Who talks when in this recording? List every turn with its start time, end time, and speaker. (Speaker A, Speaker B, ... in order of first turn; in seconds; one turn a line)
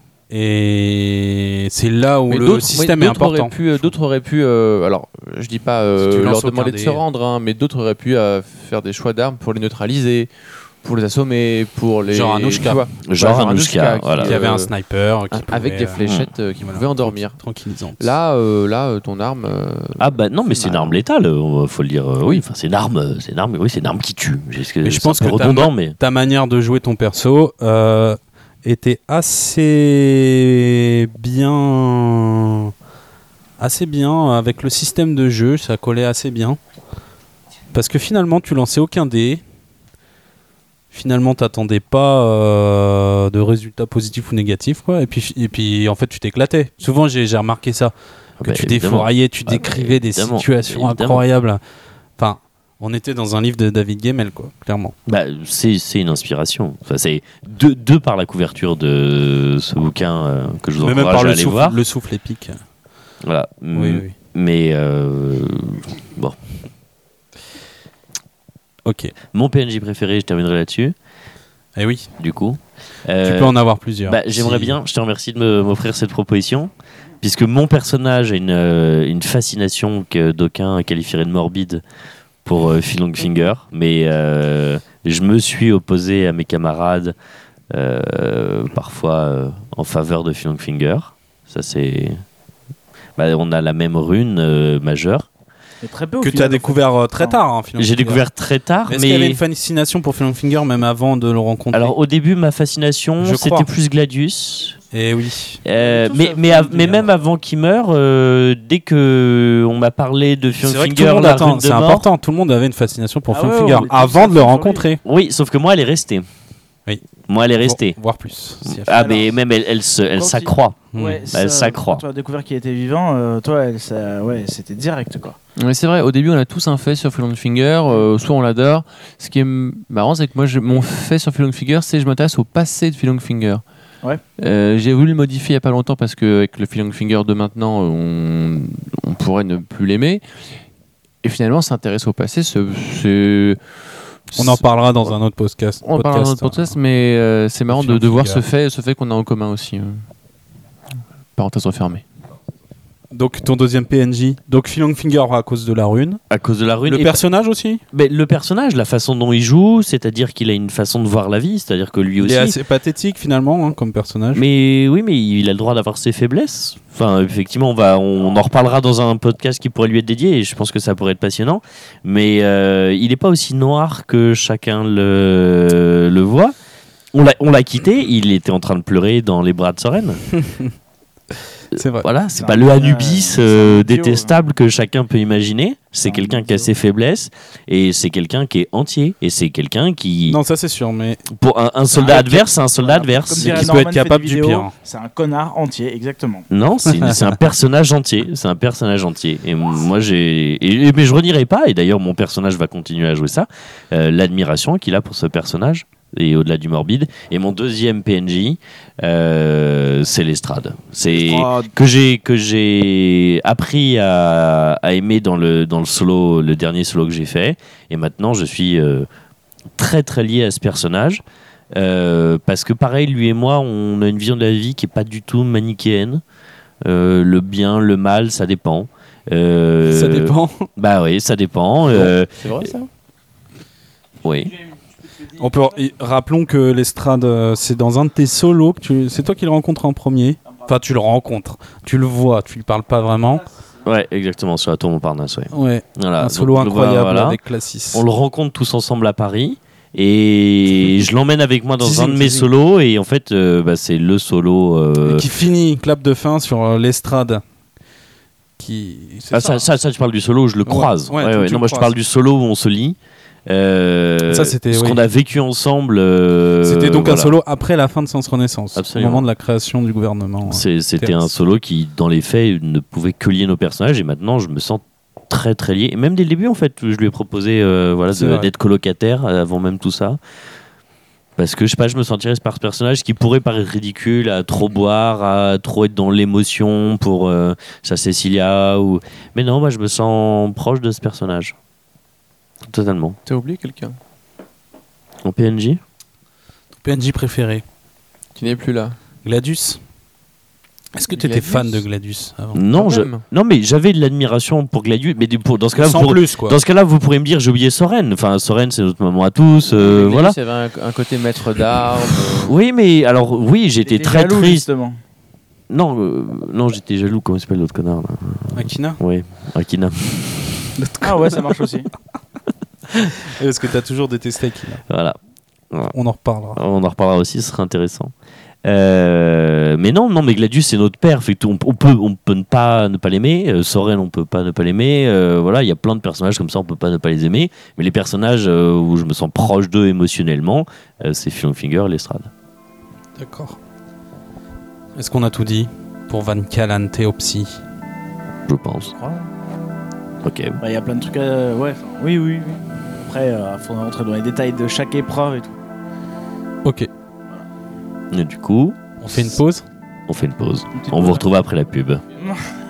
Speaker A: 0.3-3.9
Speaker B: 2.3-14.7
Speaker A: 6.0-7.0
Speaker A: 12.1-12.8
Speaker C: 13.1-14.4
Speaker A: 14.2-16.0
Speaker B: 15.3-17.4
Speaker C: 16.0-16.3
Speaker A: 16.6-18.1
Speaker B: 18.0-21.0
Speaker C: 20.0-26.0
Speaker A: 24.8-32.7
Speaker A: 33.6-36.6
Speaker A: 37.7-39.4
Speaker A: 40.9-51.6
Speaker C: 48.4-51.2
Speaker A: 52.2-55.0
Speaker C: 55.1-61.8
Speaker A: 60.8-62.6
Speaker C: 63.2-66.4
Speaker A: 63.8-64.1
Speaker A: 68.8-69.1
Speaker C: 69.3-70.9
Speaker A: 71.8-72.1
Speaker C: 72.2-81.8
Speaker A: 73.2-74.7
Speaker C: 82.5-87.2
Speaker C: 87.7-92.2
Speaker C: 93.2-95.3
Speaker D: 95.8-97.4
Speaker A: 96.2-98.2
Speaker C: 97.8-99.4
Speaker A: 98.9-101.9
Speaker C: 101.7-104.8
Speaker A: 103.2-103.7
Speaker A: 104.9-105.6
Speaker C: 105.6-112.1
Speaker D: 105.8-107.0
Speaker A: 110.6-115.0
Speaker D: 113.3-114.9
Speaker C: 115.0-116.2
Speaker C: 117.3-118.0
Speaker A: 117.6-119.0
Speaker C: 118.7-122.0
Speaker D: 118.9-119.3
Speaker D: 120.2-125.4
Speaker A: 120.9-121.2
Speaker B: 125.6-133.6
Speaker B: 134.4-140.2
Speaker B: 141.2-143.6
Speaker B: 144.3-145.2
Speaker A: 144.3-146.8
Speaker B: 145.8-150.0
Speaker A: 147.7-148.4
Speaker B: 151.4-152.0
Speaker A: 153.1-156.2
Speaker C: 156.3-157.2
Speaker A: 156.9-157.8
Speaker C: 157.9-162.6
Speaker A: 162.2-164.4
Speaker C: 164.3-176.5
Speaker C: 177.1-180.2
Speaker A: 180.4-180.7
Speaker A: 181.7-182.1
Speaker C: 181.7-190.4
Speaker D: 182.3-184.3
Speaker D: 186.1-186.7
Speaker A: 190.3-191.3
Speaker C: 191.3-193.7
Speaker D: 191.9-196.5
Speaker A: 193.4-194.7
Speaker C: 196.5-219.1
Speaker D: 211.1-211.7
Speaker C: 219.8-226.2
Speaker C: 226.8-232.7
Speaker A: 229.8-230.7
Speaker B: 231.9-232.9
Speaker C: 234.2-234.5
Speaker A: 235.4-243.5
Speaker C: 243.8-247.4
Speaker A: 245.5-248.0
Speaker C: 247.9-255.3
Speaker A: 251.8-252.5
Speaker A: 255.0-257.4
Speaker A: 258.6-259.7
Speaker C: 259.3-267.4
Speaker A: 260.7-261.9
Speaker A: 264.3-265.0
Speaker A: 266.6-271.3
Speaker C: 268.8-269.3
Speaker C: 270.4-280.2
Speaker A: 278.1-278.5
Speaker C: 281.4-291.6
Speaker C: 292.6-293.2
Speaker B: 293.3-294.0
Speaker C: 295.2-295.8
Speaker A: 296.8-297.6
Speaker B: 298.4-298.9
Speaker A: 299.2-299.8
Speaker A: 300.9-302.6
Speaker B: 301.1-301.8
Speaker C: 302.5-310.4
Speaker B: 302.8-303.2
Speaker A: 305.8-306.6
Speaker B: 309.7-312.5
Speaker C: 312.3-314.6
Speaker D: 313.8-315.0
Speaker C: 315.7-320.7
Speaker A: 318.5-319.0
Speaker A: 320.8-321.5
Speaker D: 321.0-321.9
Speaker A: 323.2-324.8
Speaker C: 324.9-325.2
Speaker A: 325.9-326.6
Speaker C: 326.6-328.1
Speaker C: 328.6-342.3
Speaker A: 343.2-343.6
Speaker A: 345.0-347.6
Speaker C: 348.5-348.9
Speaker D: 348.8-349.3
Speaker C: 350.2-350.6
Speaker D: 350.6-355.6
Speaker A: 356.6-356.9
Speaker C: 358.1-359.3
Speaker A: 359.0-359.6
Speaker C: 360.1-362.0
Speaker D: 360.7-361.2